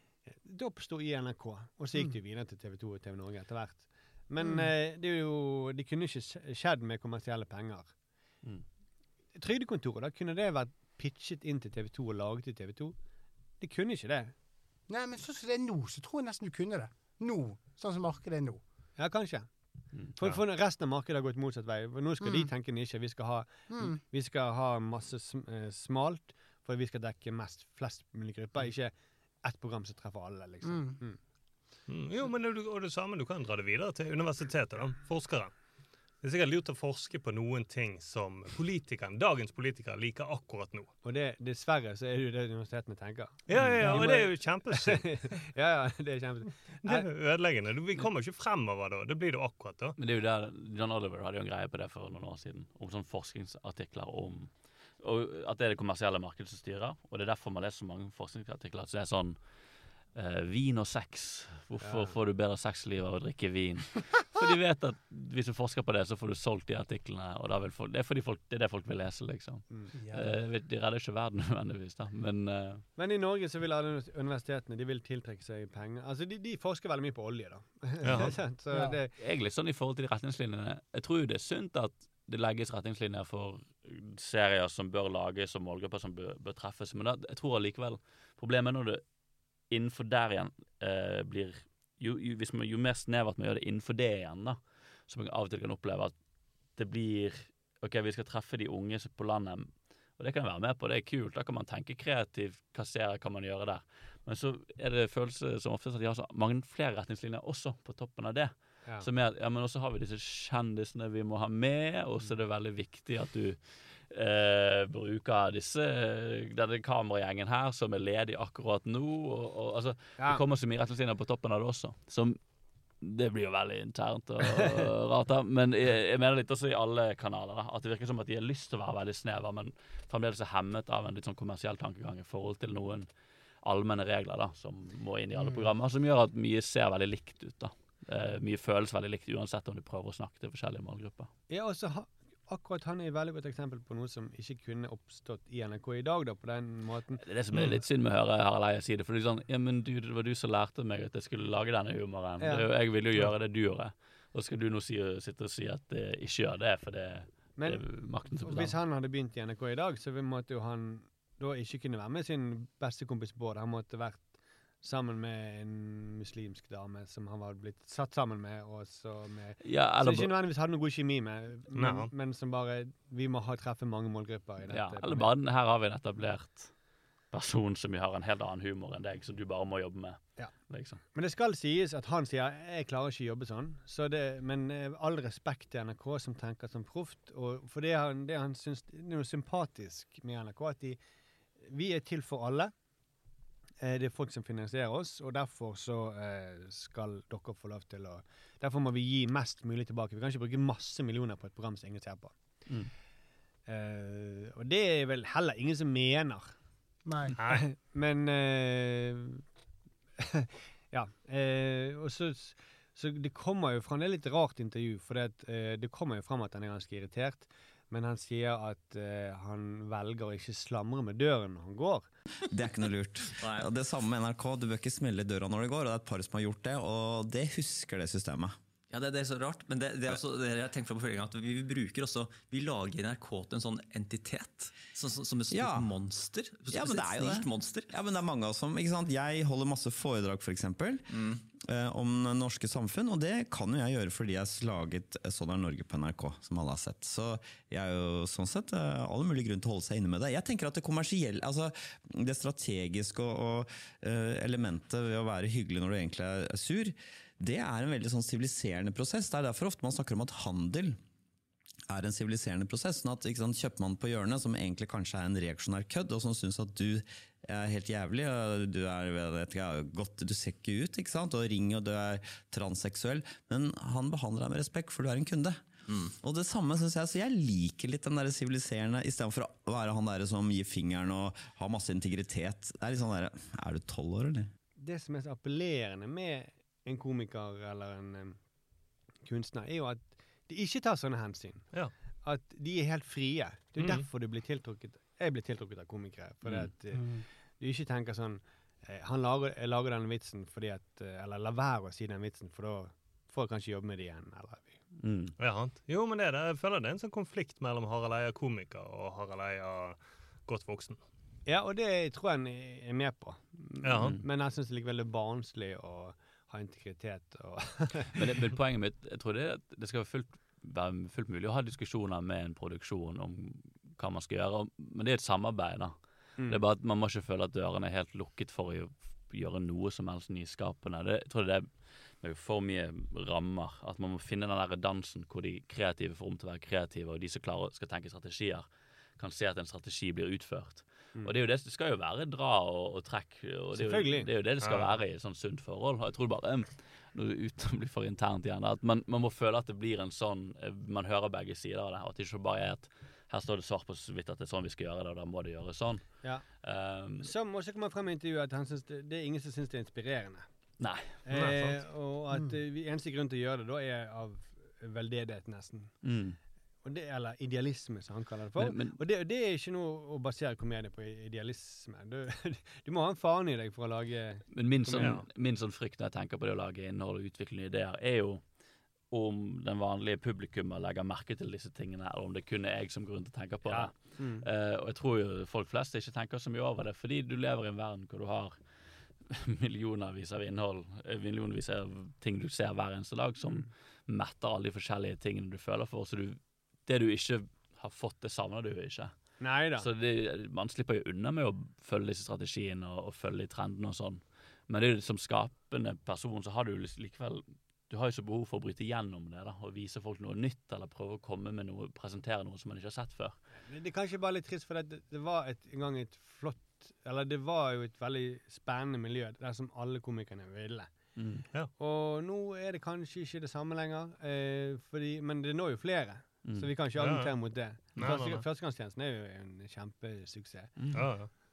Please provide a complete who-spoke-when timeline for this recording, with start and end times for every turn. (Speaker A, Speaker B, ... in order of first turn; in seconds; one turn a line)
Speaker A: 0.2-7.9
Speaker B: 4.4-4.7
Speaker A: 9.3-12.9
Speaker A: 13.6-14.3
Speaker B: 14.9-18.6
Speaker A: 19.0-19.5
Speaker A: 20.1-31.2
Speaker B: 22.2-22.5
Speaker B: 23.7-24.0
Speaker B: 30.6-31.0
Speaker C: 31.9-35.5
Speaker C: 36.2-40.9
Speaker A: 41.0-47.0
Speaker C: 43.5-45.2
Speaker D: 43.5-44.0
Speaker C: 46.8-50.0
Speaker D: 50.0-59.4
Speaker D: 60.1-72.8
Speaker A: 61.8-62.1
Speaker B: 69.9-70.4
Speaker A: 73.0-79.1
Speaker C: 78.0-78.3
Speaker B: 78.7-79.0
Speaker D: 79.2-89.1
Speaker D: 89.6-96.2
Speaker D: 96.7-122.4
Speaker D: 123.0-133.1
Speaker D: 133.6-141.3
Speaker A: 141.5-147.8
Speaker D: 147.2-158.7
Speaker A: 152.4-152.7
Speaker A: 157.6-175.3
Speaker D: 169.6-170.3
Speaker C: 171.7-172.1
Speaker D: 174.7-176.7
Speaker D: 177.3-181.0
Speaker A: 181.0-191.0
Speaker A: 191.6-192.7
Speaker A: 193.8-202.4
Speaker D: 202.7-202.9
Speaker A: 203.7-206.6
Speaker B: 207.1-207.3
Speaker C: 207.4-207.6
Speaker A: 207.5-209.4
Speaker A: 210.2-222.1
Speaker E: 222.5-228.6
Speaker F: 223.4-223.7
Speaker F: 228.9-237.9
Speaker E: 235.5-235.9
Speaker E: 236.7-261.0
Speaker F: 241.1-241.4
Speaker E: 261.9-284.5
Speaker A: 284.8-288.4
Speaker A: 289.2-304.8
Speaker C: 293.8-294.0
Speaker B: 296.9-297.2
Speaker D: 305.0-305.3
Speaker C: 305.4-311.0
Speaker A: 311.4-318.1
Speaker C: 313.8-314.1
Speaker D: 318.1-357.3
Speaker A: 343.7-344.3
Speaker A: 356.2-356.6
Speaker A: 357.2-360.5
Speaker D: 360.8-361.2
Speaker A: 361.2-366.1
Speaker C: 361.3-361.8
Speaker B: 362.3-362.6
Speaker D: 366.0-366.4
Speaker A: 366.8-375.2
Speaker D: 368.6-369.0
Speaker D: 374.5-378.4
Speaker D: 379.1-388.6
Speaker A: 383.6-384.5
Speaker D: 389.2-413.4
Speaker A: 399.4-399.9
Speaker A: 413.6-421.1
Speaker D: 421.1-421.4
Speaker A: 421.8-430.8
Speaker D: 426.4-426.7
Speaker C: 427.0-428.4
Speaker D: 430.8-431.4
Speaker C: 430.9-431.3